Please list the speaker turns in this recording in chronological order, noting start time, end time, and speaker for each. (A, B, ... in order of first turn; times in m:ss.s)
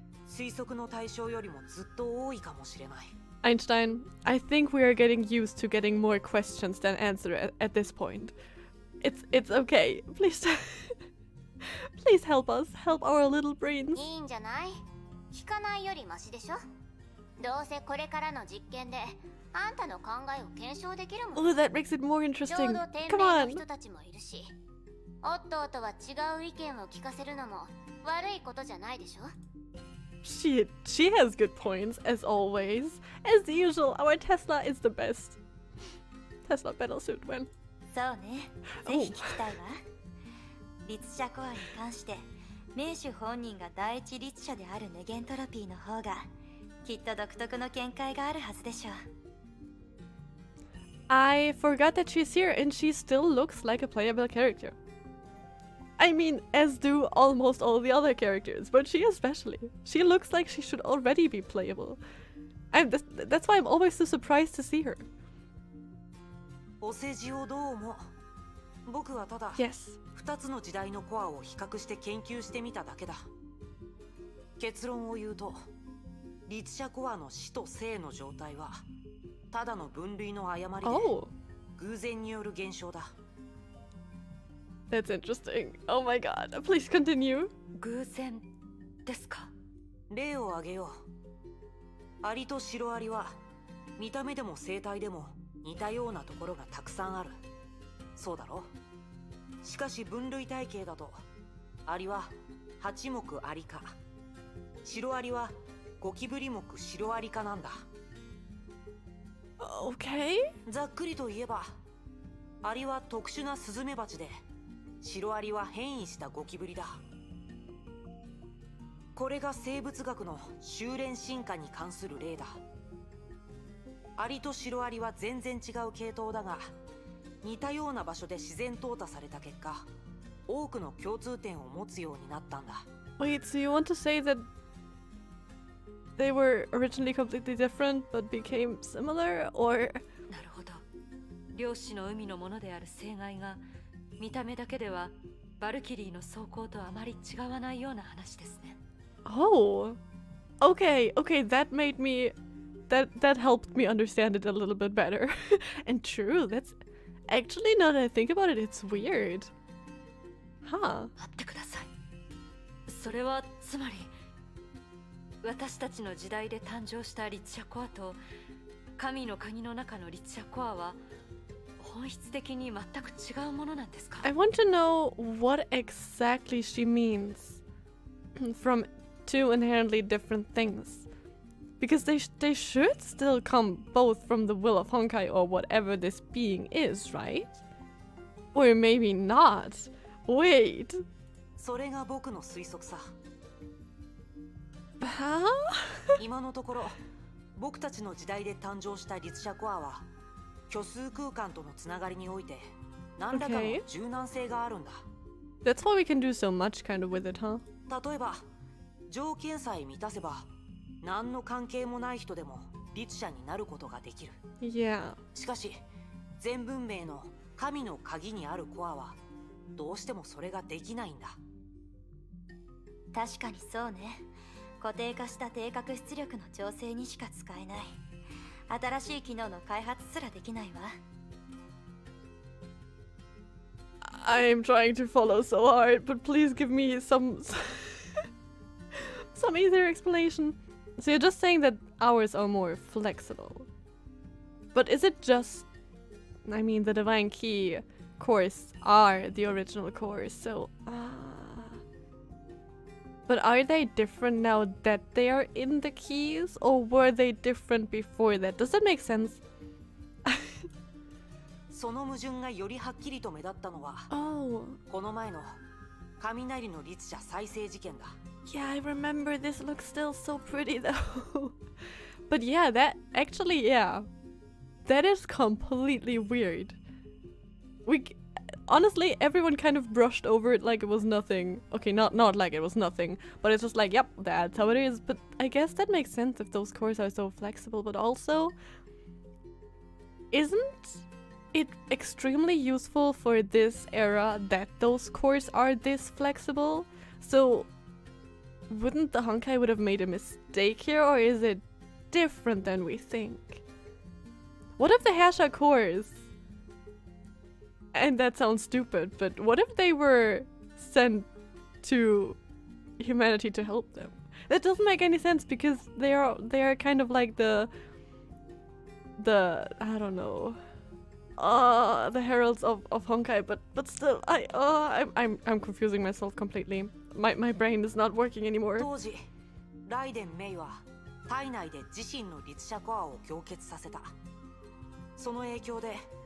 0:00.3-0:03.1 A
0:03.4-0:08.4 B
0:09.0-0:11.0 B
0:11.8-0:14.0 B
0:14.0-0:16.6 C
0:17.4-0:21.5 C
0:21.4-0:23.6 B
0:22.5-0:24.6 C
0:25.2-0:29.3 C
0:30.2-0:35.4 B
0:36.5-0:37.5 B
0:37.9-0:39.8 D
0:38.8-0:39.4 B
0:40.8-0:42.2 D
0:42.8-0:46.3 D
0:46.8-0:49.0 D
0:51.1-0:54.8 B
0:56.0-1:02.0 B
1:02.7-1:05.0 B
1:06.8-1:08.1 A
1:08.9-1:09.6 A
1:09.6-1:10.0 B
1:10.1-1:13.3 A
1:14.6-1:15.7 A
1:16.5-1:18.8 A
1:19.5-1:21.1 A
1:20.8-1:21.3 B
1:21.8-1:23.1 A
1:24.9-1:27.5 B
1:27.8-1:28.5 E
1:29.1-1:29.5 E
1:30.1-1:31.0 A
1:32.2-1:33.4 A
1:34.0-1:37.4 A
1:38.2-1:38.7 A
1:39.6-1:41.2 A
1:41.9-1:44.0 A
1:44.8-1:47.9 A
1:49.6-1:50.5 B
1:50.7-1:51.8 A
1:52.6-1:54.4 A
1:55.0-1:57.0 A
1:59.2-2:02.6 A
2:04.2-2:06.7 A
2:07.4-2:09.9 A
2:10.5-2:12.9 A
2:13.2-2:14.5 B
2:16.2-2:20.0 B
2:20.3-2:20.8 E
2:21.5-2:23.6 E
2:24.2-2:28.8 E
2:29.3-2:30.0 B
2:30.6-2:32.3 B
2:32.9-2:39.5 B
2:40.6-2:41.1 B
2:41.2-2:41.9 E
2:42.9-2:44.1 E
2:45.4-2:48.2 E
2:49.0-2:51.0 E
2:51.8-2:54.3 E
2:54.2-2:57.6 B
2:58.4-3:01.1 B
3:01.8-3:07.5 B
3:08.5-3:11.0 B
3:11.6-3:13.1 A
3:15.0-3:16.2 B
3:16.2-3:17.0 A
3:17.6-3:20.1 A
3:20.7-3:25.0 A
3:23.3-3:23.8 B
3:25.6-3:27.6 B
3:27.9-3:28.4 A
3:29.1-3:30.5 A
3:31.0-3:34.4 A
3:34.6-3:35.2 B
3:35.3-3:35.8 A
3:36.4-3:39.2 A
3:39.8-3:41.4 A
3:43.1-3:44.2 D
3:44.8-3:48.0 D
3:48.7-3:51.0 D
3:54.0-3:58.2 B
3:59.0-4:03.7 B
4:04.7-4:05.7 B
4:06.4-4:11.8 B
4:13.3-4:19.4 B
4:21.7-4:24.1 A
4:24.1-4:24.8 B
4:24.9-4:25.6 A
4:26.2-4:28.2 A
4:28.5-4:31.6 B
4:32.3-4:34.1 B
4:34.8-4:36.8 B
4:37.9-4:48.6 B
4:50.3-4:57.7 B
4:58.7-5:03.6 B
5:04.8-5:06.2 B
5:07.9-5:11.3 B
5:11.8-5:12.4 B
5:13.0-5:17.7 B
5:19.2-5:20.6 B
5:21.4-5:28.9 B
5:28.8-5:29.3 A
5:29.9-5:34.1 A
5:35.2-5:36.1 A